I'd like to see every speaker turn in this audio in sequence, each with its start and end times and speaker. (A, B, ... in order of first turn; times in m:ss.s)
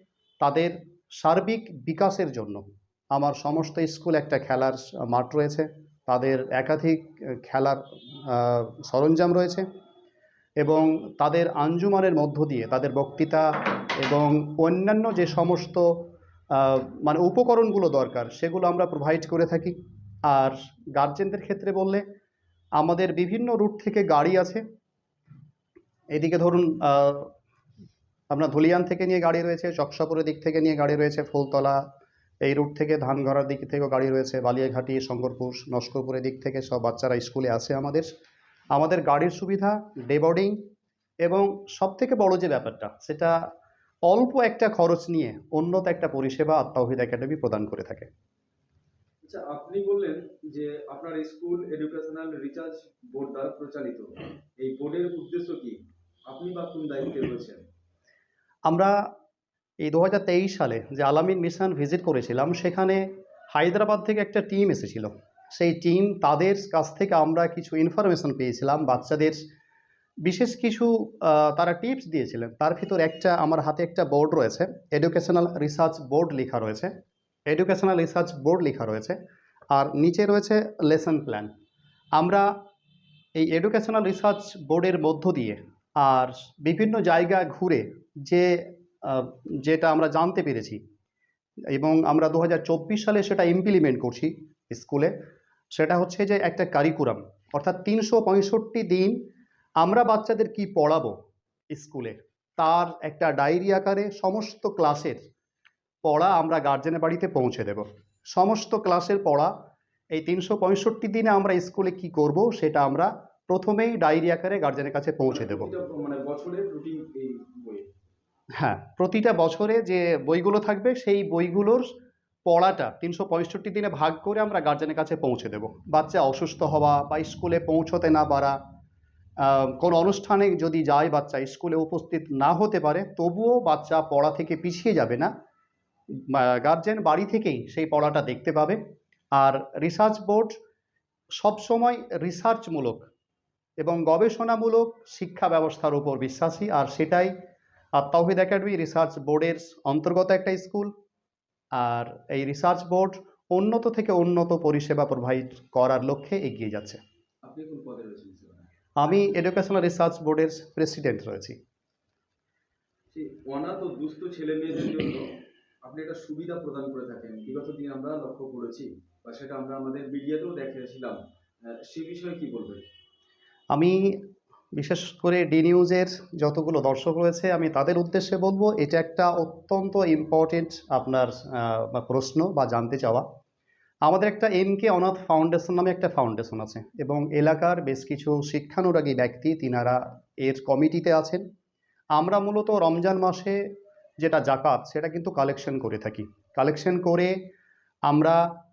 0:00.4-0:09.7 A
0:10.6-0:19.7 A
0:20.3-0:22.0 A
0:22.8-0:24.6 A
0:26.1-0:27.3 A
0:28.3-0:31.8 A
0:32.4-0:38.1 A
0:38.7-0:40.6 A
0:41.2-0:43.4 A
0:44.1-0:48.1 A
0:49.2-0:55.8 B
0:56.3-0:57.6 B
0:58.7-0:58.9 A
0:59.8-1:09.4 A
1:10.2-1:16.9 A
1:17.5-1:19.2 A
1:19.7-1:21.5 A
1:22.2-1:22.5 A
1:23.3-1:30.8 A
1:31.7-1:35.1 A
1:35.7-1:39.2 A
1:39.8-1:41.2 A
1:41.7-1:45.2 A
1:46.0-1:49.5 A
1:50.1-1:55.7 A
1:55.3-1:57.8 B
1:58.6-2:01.9 A
2:02.4-2:08.6 A
2:09.4-2:15.3 A
2:16.2-2:18.8 A
2:19.4-2:20.6 A
2:21.4-2:23.1 A
2:23.8-2:27.3 A
2:28.0-2:30.9 A
2:31.8-2:37.0 A
2:37.4-2:38.7 B
2:39.0-2:41.6 A
2:43.1-2:52.8 B
2:53.7-2:54.2 A
2:54.7-3:03.2 A
3:04.0-3:11.4 A
3:12.2-3:13.6 A
3:14.2-3:17.4 A
3:18.1-3:18.5 A